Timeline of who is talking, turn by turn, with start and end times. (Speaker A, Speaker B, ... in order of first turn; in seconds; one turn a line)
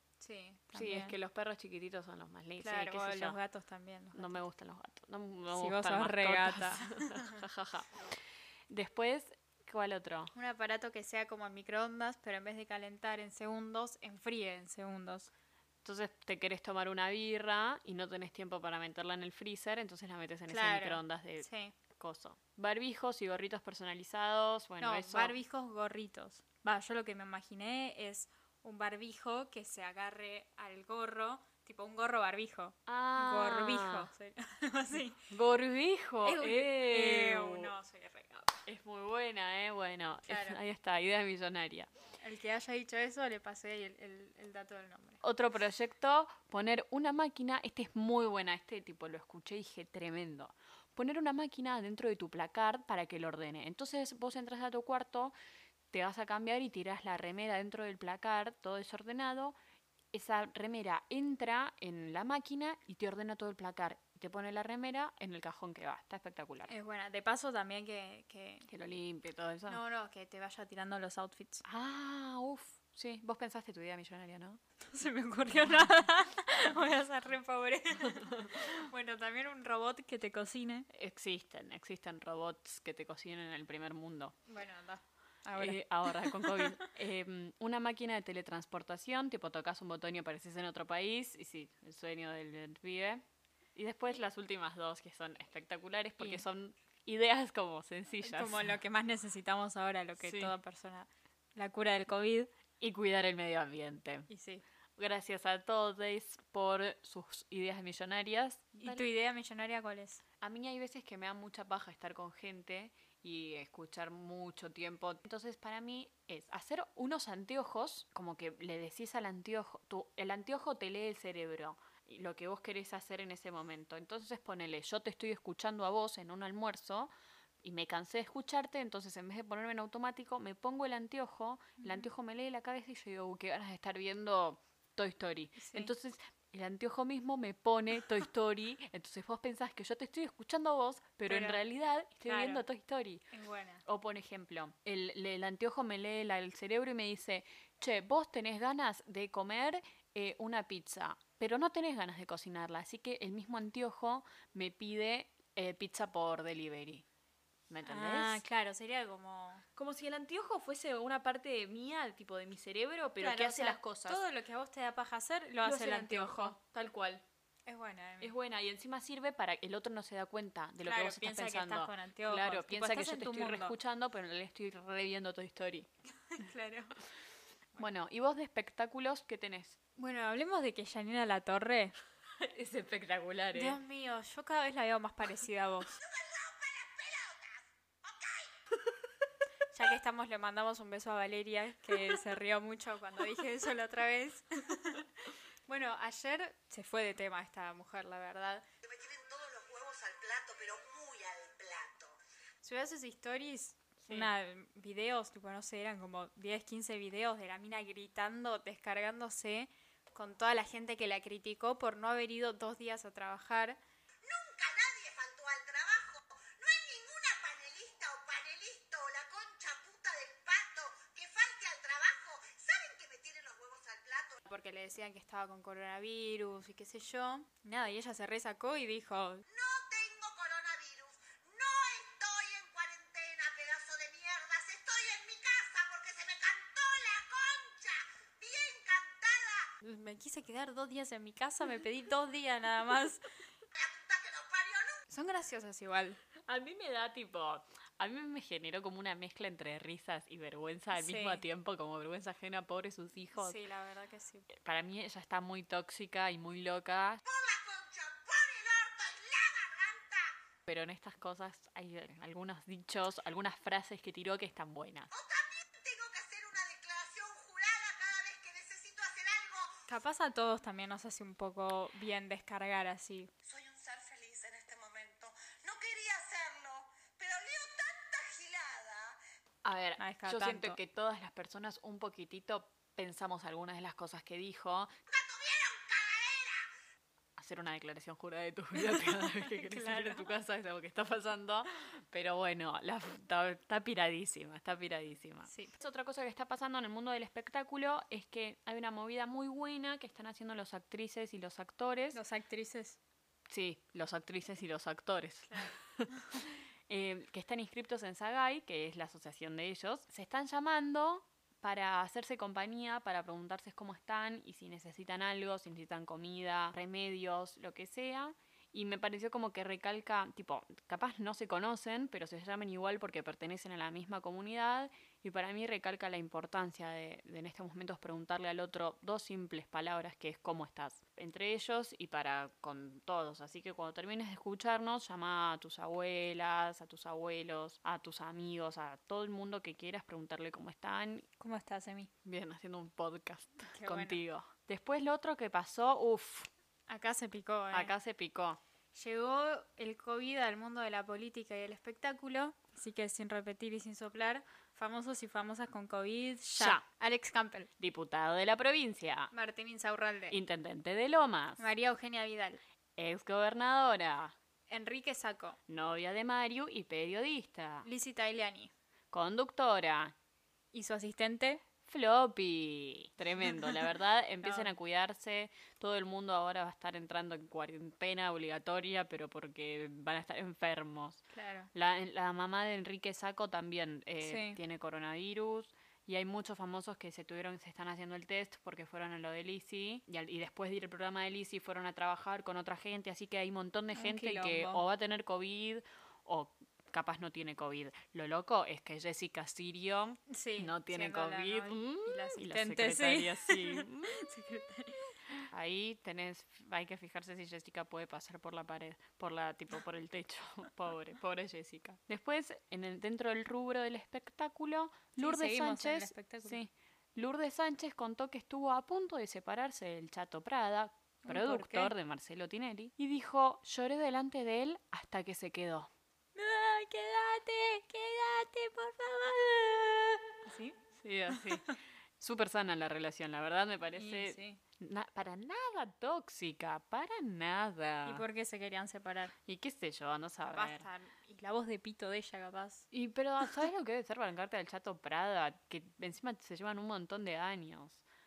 Speaker A: 0.2-1.1
Speaker B: 0.7-3.4
Speaker A: 2.6-4.4
Speaker B: 4.1-8.1
Speaker A: 5.5-7.4
Speaker B: 8.7-10.3
Speaker A: 10.3-15.3
Speaker B: 15.8-25.4
Speaker A: 20.5-21.8
Speaker A: 24.8-35.2
Speaker B: 32.9-34.1
Speaker B: 35.3-37.7
Speaker A: 36.2-38.6
Speaker B: 38.6-41.9
Speaker A: 40.2-40.6
Speaker A: 42.2-45.2
Speaker B: 45.2-55.3
Speaker B: 55.9-59.5
Speaker B: 60.1-66.7
Speaker A: 66.7-68.7
Speaker B: 68.7-69.8
Speaker A: 69.7-71.6
Speaker B: 71.6-74.6
Speaker A: 74.9-80.8
Speaker B: 75.5-75.9
Speaker B: 80.9-84.3
Speaker A: 84.5-86.8
Speaker B: 85.5-93.2
Speaker B: 93.8-98.7
Speaker A: 96.2-96.4
Speaker A: 98.2-102.5
Speaker B: 100.2-100.5
Speaker B: 102.8-104.3
Speaker A: 104.3-104.6
Speaker B: 105.0-109.1
Speaker A: 108.8-110.2
Speaker B: 110.4-127.1
Speaker B: 127.6-143.2
Speaker A: 131.8-132.1
Speaker A: 135.6-135.9
Speaker A: 141.3-141.6
Speaker A: 142.2-142.6
Speaker A: 143.3-143.8
Speaker B: 143.8-157.0
Speaker B: 157.7-158.4
Speaker A: 157.8-159.6
Speaker B: 159.8-164.2
Speaker A: 163.2-166.6
Speaker B: 165.6-167.2
Speaker A: 167.7-168.3
Speaker B: 168.2-175.9
Speaker A: 170.8-173.7
Speaker A: 176.3-176.9
Speaker B: 177.8-179.8
Speaker A: 179.9-181.9
Speaker B: 182.4-183.8
Speaker A: 183.5-186.0
Speaker C: 186.1-188.8
Speaker A: 189.7-195.1
Speaker A: 195.7-198.6
Speaker C: 198.8-202.2
Speaker A: 202.6-213.8
Speaker B: 204.0-204.3
Speaker C: 214.2-224.4
Speaker A: 224.4-229.4
Speaker C: 229.5-239.7
Speaker A: 239.8-243.2
Speaker C: 243.7-245.0
Speaker A: 245.1-246.2
Speaker B: 246.5-253.6
Speaker A: 250.9-251.4
Speaker A: 253.3-254.5
Speaker B: 254.5-257.2
Speaker C: 257.2-260.3
Speaker B: 260.7-265.1
Speaker C: 265.1-269.9
Speaker A: 269.9-273.3
Speaker C: 273.4-279.2
Speaker B: 279.6-284.9
Speaker A: 280.0-280.8
Speaker C: 285.1-286.7
Speaker B: 287.4-302.2
Speaker A: 288.8-290.3
Speaker A: 295.4-295.7
Speaker A: 302.1-303.0
Speaker B: 303.5-341.2
Speaker A: 305.5-306.4
Speaker A: 341.4-342.1
Speaker B: 342.2-346.5
Speaker A: 343.7-344.2
Speaker A: 346.9-347.9
Speaker B: 347.7-348.6
Speaker A: 348.9-357.7
Speaker B: 356.6-356.8
Speaker B: 357.8-359.3
Speaker A: 359.3-360.4
Speaker B: 360.3-361.6
Speaker A: 361.6-362.6
Speaker B: 363.0-364.3
Speaker A: 364.7-365.6
Speaker B: 365.7-367.9
Speaker A: 367.8-368.7
Speaker B: 369.1-370.1
Speaker A: 370.7-371.6
Speaker B: 371.9-404.2
Speaker A: 374.4-374.7
Speaker A: 381.3-381.7
Speaker A: 384.2-384.6
Speaker A: 393.9-394.8
Speaker A: 400.3-405.1
Speaker B: 405.5-425.9
Speaker A: 415.2-416.6
Speaker A: 421.2-421.9
Speaker A: 426.3-430.8
Speaker B: 431.0-438.2
Speaker A: 431.3-431.8
Speaker A: 433.9-434.6
Speaker A: 438.1-439.3
Speaker B: 439.4-440.9
Speaker A: 440.5-442.9
Speaker B: 442.9-448.0